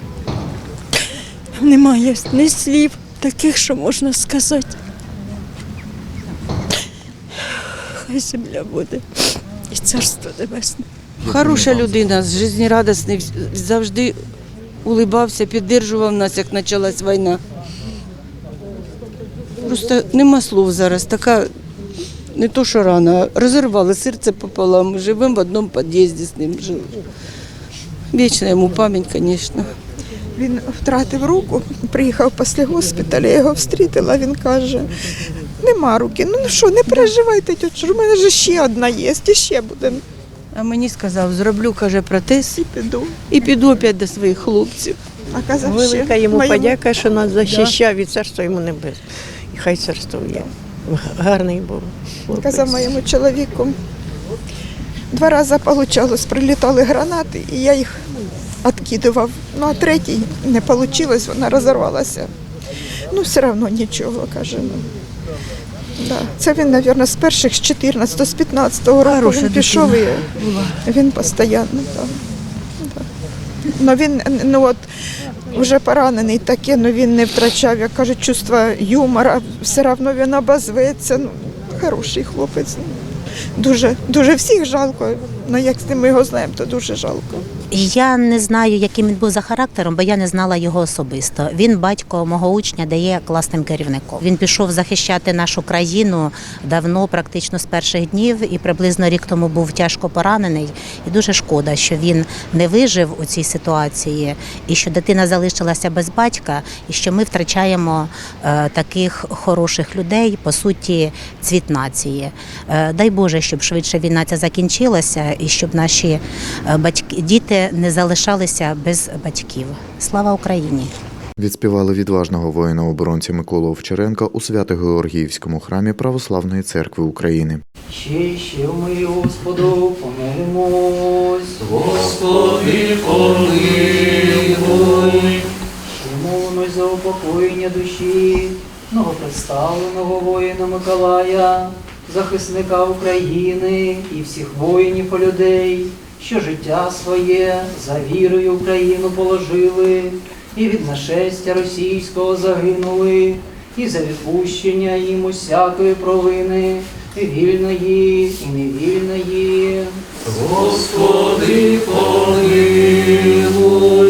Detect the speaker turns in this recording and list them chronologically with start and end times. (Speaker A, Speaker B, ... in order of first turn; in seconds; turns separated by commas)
Speaker A: 1.6-4.7, Speaker A: 8.0-10.8, Speaker B: 11.2-14.2, Speaker B: 14.8-17.4, Speaker B: 19.6-21.5, Speaker B: 22.3-26.9, Speaker B: 28.1-29.7, Speaker C: 30.4-34.9, Speaker C: 35.6-40.0, Speaker B: 40.5-42.6, Speaker C: 42.5-43.1, Speaker B: 43.3-45.0, Speaker C: 45.3-46.9, Speaker D: 45.7-48.9, Speaker D: 49.5-50.4, Speaker D: 50.9-51.9, Speaker C: 52.3-53.8, Speaker C: 55.1-57.9, Speaker C: 58.6-62.3, Speaker C: 63.1-64.8, Speaker C: 66.0-70.3, Speaker B: 69.0-70.8, Speaker C: 70.8-72.1, Speaker C: 73.8-74.8, Speaker C: 75.5-82.9, Speaker C: 83.6-87.4, Speaker E: 87.7-120.9, Speaker F: 121.4-127.6, Speaker G: 127.9-163.9